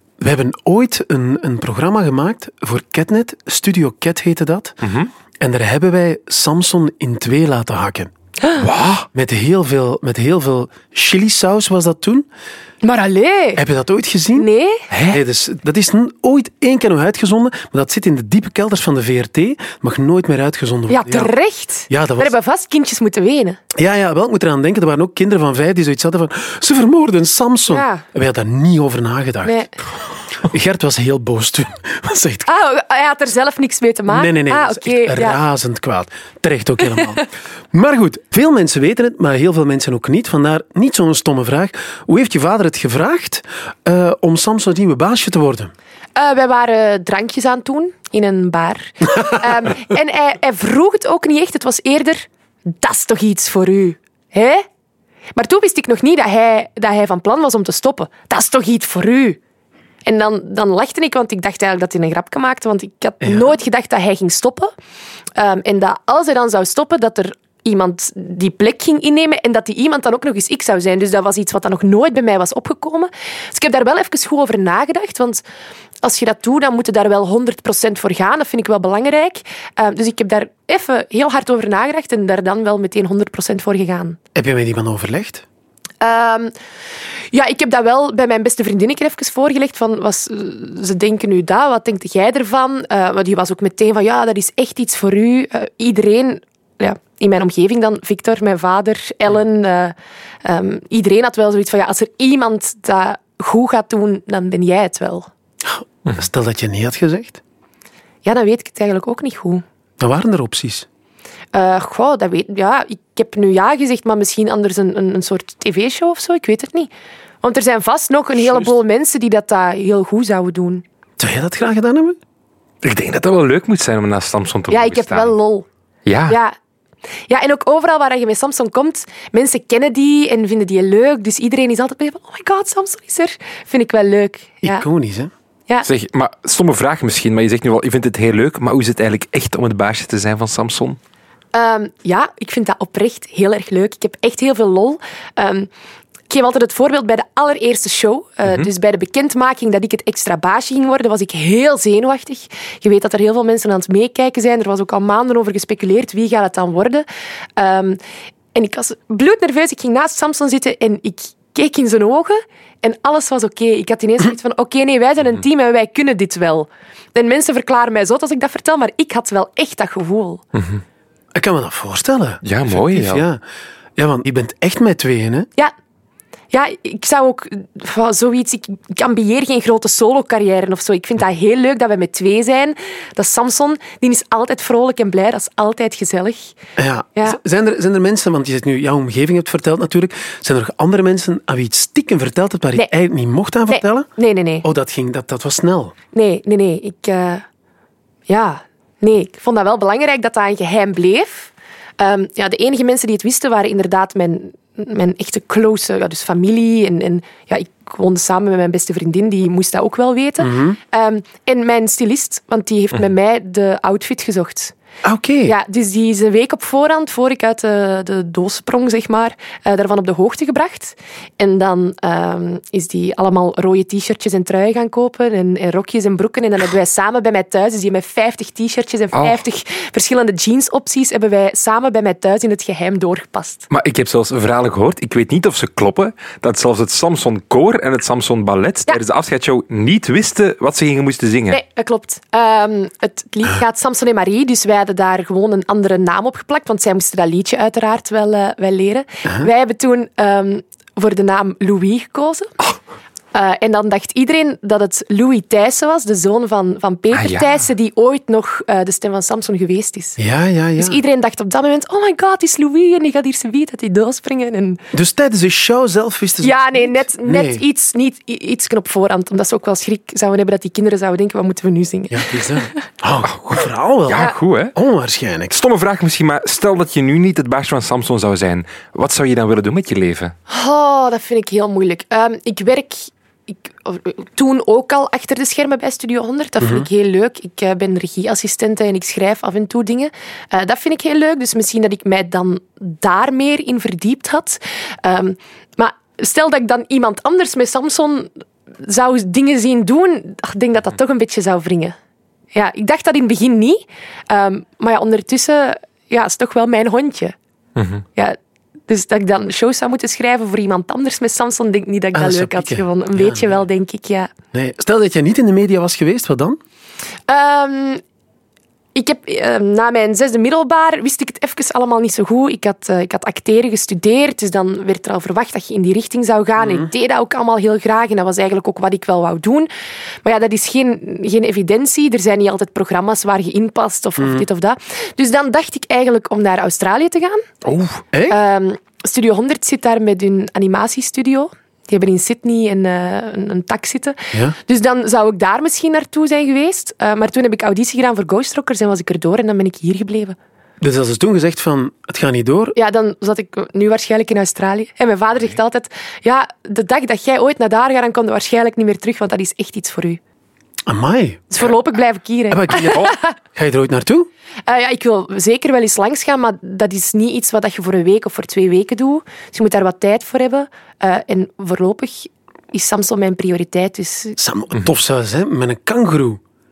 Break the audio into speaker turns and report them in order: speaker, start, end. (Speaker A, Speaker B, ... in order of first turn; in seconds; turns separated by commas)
Speaker A: 0.2-4.8, Speaker B: 4.8-5.1, Speaker A: 5.4-8.1, Speaker B: 8.6-9.1, Speaker A: 9.1-12.3, Speaker C: 12.8-13.6, Speaker A: 13.6-14.5, Speaker C: 14.3-14.8, Speaker B: 14.9-15.2, Speaker A: 15.1-21.3, Speaker C: 20.9-23.6, Speaker A: 21.9-22.3, Speaker A: 23.7-29.6, Speaker C: 27.7-28.0, Speaker C: 29.4-29.7, Speaker A: 30.4-32.5, Speaker C: 32.5-35.4, Speaker A: 34.1-45.7, Speaker C: 46.1-54.6, Speaker C: 55.3-59.4, Speaker C: 60.0-64.7, Speaker A: 63.2-63.5, Speaker C: 65.3-75.4, Speaker C: 76.0-84.2, Speaker A: 84.3-85.4, Speaker C: 86.0-86.5, Speaker C: 87.3-105.3, Speaker A: 105.6-107.4, Speaker C: 108.2-109.6, Speaker A: 110.0-110.8, Speaker C: 111.5-116.9, Speaker C: 117.4-120.8, Speaker A: 121.2-122.2, Speaker B: 122.8-125.3, Speaker C: 124.7-125.7, Speaker B: 126.0-126.4, Speaker C: 126.3-126.5, Speaker C: 127.3-134.8, Speaker A: 134.6-135.3, Speaker B: 135.8-141.0, Speaker C: 141.5-145.7, Speaker C: 146.3-157.1, Speaker C: 157.6-158.0, Speaker C: 158.5-170.4, Speaker B: 170.5-170.8, Speaker A: 171.3-173.4, Speaker B: 172.4-173.2, Speaker A: 173.9-175.5, Speaker C: 176.5-186.5, Speaker A: 186.8-194.1, Speaker C: 193.7-194.7, Speaker A: 194.6-195.9, Speaker C: 196.1-197.4, Speaker C: 198.3-214.7, Speaker A: 210.4-210.8, Speaker A: 215.0-215.5, Speaker C: 215.4-233.7, Speaker B: 229.1-229.4, Speaker B: 233.7-241.6, Speaker C: 241.5-252.5, Speaker C: 253.3-260.2, Speaker B: 257.1-257.5, Speaker A: 260.2-261.0, Speaker C: 260.8-264.8, Speaker A: 264.9-267.6, Speaker C: 266.4-272.7, Speaker A: 272.1-275.5, Speaker B: 274.1-274.7, Speaker B: 275.5-280.3, Speaker C: 280.5-298.3, Speaker C: 298.8-301.9, Speaker C: 302.5-307.3, Speaker B: 307.8-308.0, Speaker C: 308.9-314.3, Speaker A: 312.1-313.6, Speaker A: 314.5-316.6, Speaker C: 317.3-318.0, Speaker C: 318.9-329.7, Speaker A: 326.6-326.9, Speaker C: 330.2-337.5, Speaker A: 334.2-334.4, Speaker B: 337.6-338.0, Speaker A: 338.1-338.4, Speaker C: 338.3-350.4, Speaker A: 350.8-352.8, Speaker C: 352.7-360.2, Speaker A: 360.9-361.6, Speaker C: 361.5-363.3, Speaker A: 362.5-364.3, Speaker C: 364.7-374.4, Speaker A: 374.4-376.4